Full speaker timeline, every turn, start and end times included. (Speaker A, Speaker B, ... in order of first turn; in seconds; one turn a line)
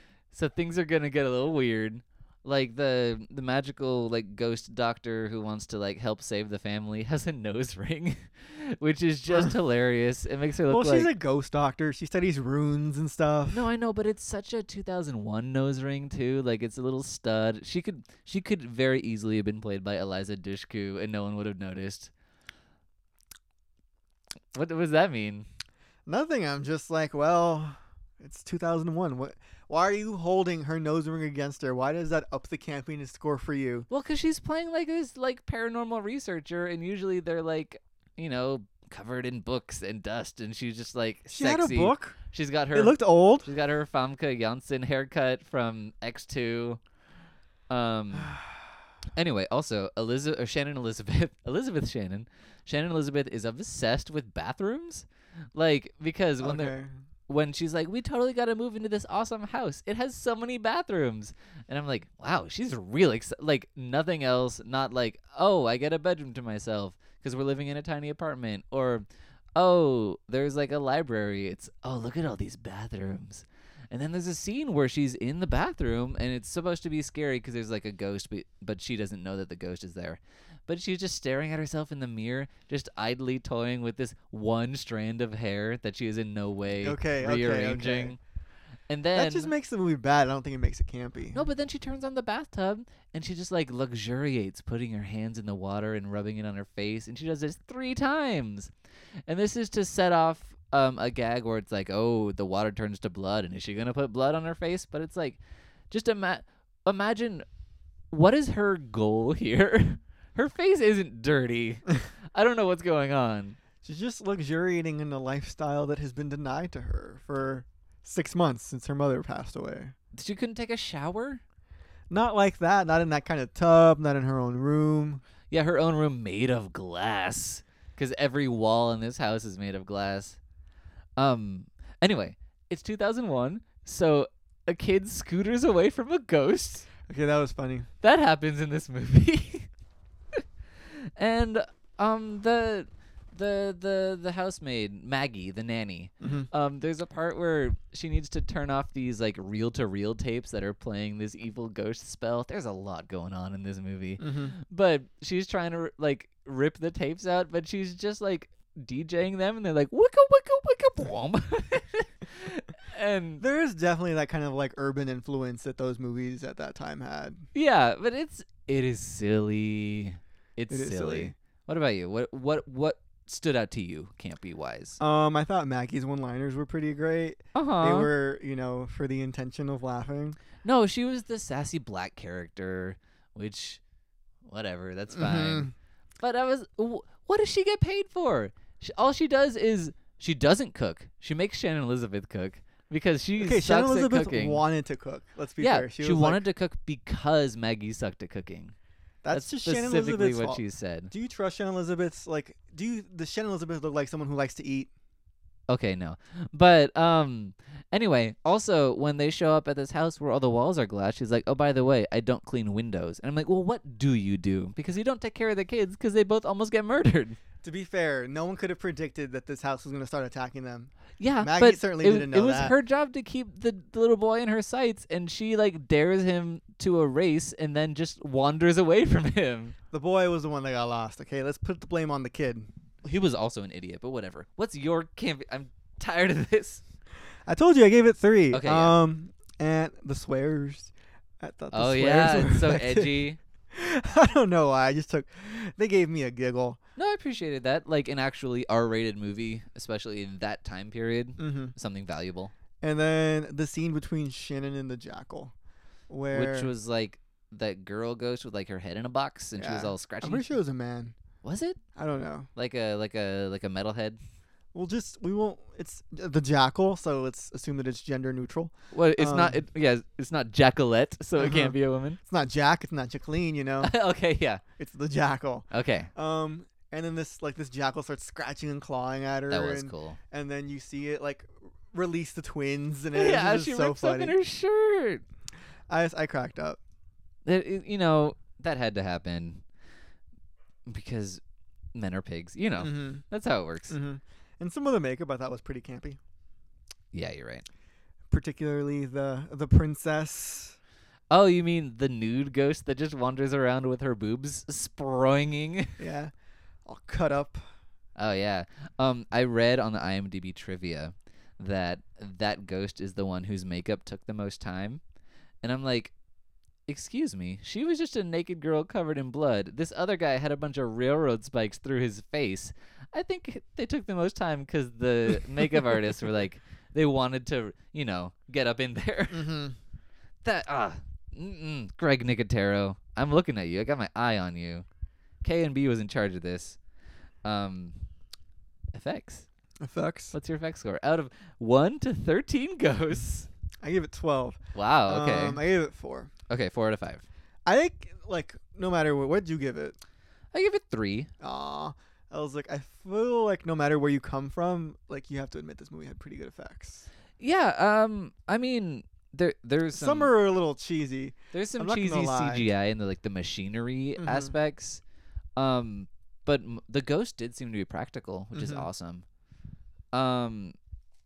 Speaker A: 0.3-11.1
Speaker B: 10.7-13.6
Speaker A: 13.5-22.1
Speaker A: 24.5-25.5
Speaker B: 26.1-33.9
Speaker A: 33.9-46.8
Speaker B: 41.3-42.2
Speaker B: 42.7-43.5
Speaker A: 47.7-48.3
Speaker B: 48.1-48.6
Speaker A: 49.1-56.7
Speaker B: 56.4-57.0
Speaker A: 57.3-88.2
Speaker B: 86.8-88.2
Speaker A: 88.9-89.5
Speaker B: 89.1-91.4
Speaker A: 91.3-98.7
Speaker A: 99.3-105.4
Speaker A: 105.9-107.5
Speaker A: 108.1-113.6
Speaker B: 113.8-119.9
Speaker A: 120.1-121.4
Speaker B: 122.1-125.2
Speaker A: 125.5-130.4
Speaker A: 131.2-136.9
Speaker B: 137.1-137.9
Speaker A: 138.0-139.7
Speaker A: 140.9-163.4
Speaker B: 146.2-146.5
Speaker B: 154.2-154.5
Speaker B: 163.4-167.4
Speaker A: 167.5-175.0
Speaker B: 170.7-171.3
Speaker B: 175.0-180.4
Speaker A: 177.5-178.1
Speaker A: 180.6-183.8
Speaker A: 184.4-194.6
Speaker B: 185.1-185.7
Speaker B: 193.4-196.4
Speaker A: 195.6-198.7
Speaker B: 199.2-204.9
Speaker A: 199.3-201.1
Speaker A: 205.7-217.4
Speaker B: 217.6-222.7
Speaker A: 221.2-229.7
Speaker B: 229.9-232.7
Speaker A: 233.0-236.8
Speaker B: 237.4-246.8
Speaker A: 238.5-238.9
Speaker A: 241.7-243.4
Speaker A: 247.0-252.5
Speaker B: 251.4-251.7
Speaker B: 252.8-255.5
Speaker B: 256.1-256.7
Speaker A: 256.3-260.5
Speaker B: 259.6-261.1
Speaker A: 261.4-261.8
Speaker B: 261.9-262.5
Speaker A: 262.6-264.2
Speaker B: 264.7-269.6
Speaker A: 268.9-272.2
Speaker B: 271.4-273.9
Speaker A: 273.8-274.6
Speaker B: 274.8-284.3
Speaker A: 275.7-276.1
Speaker A: 279.5-280.2
Speaker A: 283.1-285.2
Speaker B: 285.9-286.8
Speaker A: 287.4-289.6
Speaker A: 290.9-291.4
Speaker A: 291.9-294.0
Speaker B: 292.8-293.2
Speaker B: 293.9-296.2
Speaker A: 297.1-297.6
Speaker B: 298.3-300.8
Speaker A: 301.3-306.0
Speaker B: 306.0-306.3
Speaker B: 306.9-307.6
Speaker A: 308.2-315.0
Speaker A: 315.6-316.1
Speaker A: 316.9-329.6
Speaker B: 329.3-329.8
Speaker A: 330.4-334.9
Speaker A: 335.4-336.8
Speaker A: 337.4-338.0
Speaker A: 338.9-339.4
Speaker B: 339.8-340.3
Speaker A: 340.3-343.5
Speaker B: 343.8-346.3
Speaker A: 344.7-345.6
Speaker A: 346.5-347.2
Speaker B: 347.6-350.0
Speaker A: 350.5-351.3
Speaker B: 351.4-357.1
Speaker A: 357.4-360.3
Speaker B: 359.9-362.7
Speaker A: 361.5-365.0
Speaker B: 364.2-364.5
Speaker A: 365.6-369.2
Speaker B: 368.5-368.9
Speaker A: 370.1-370.7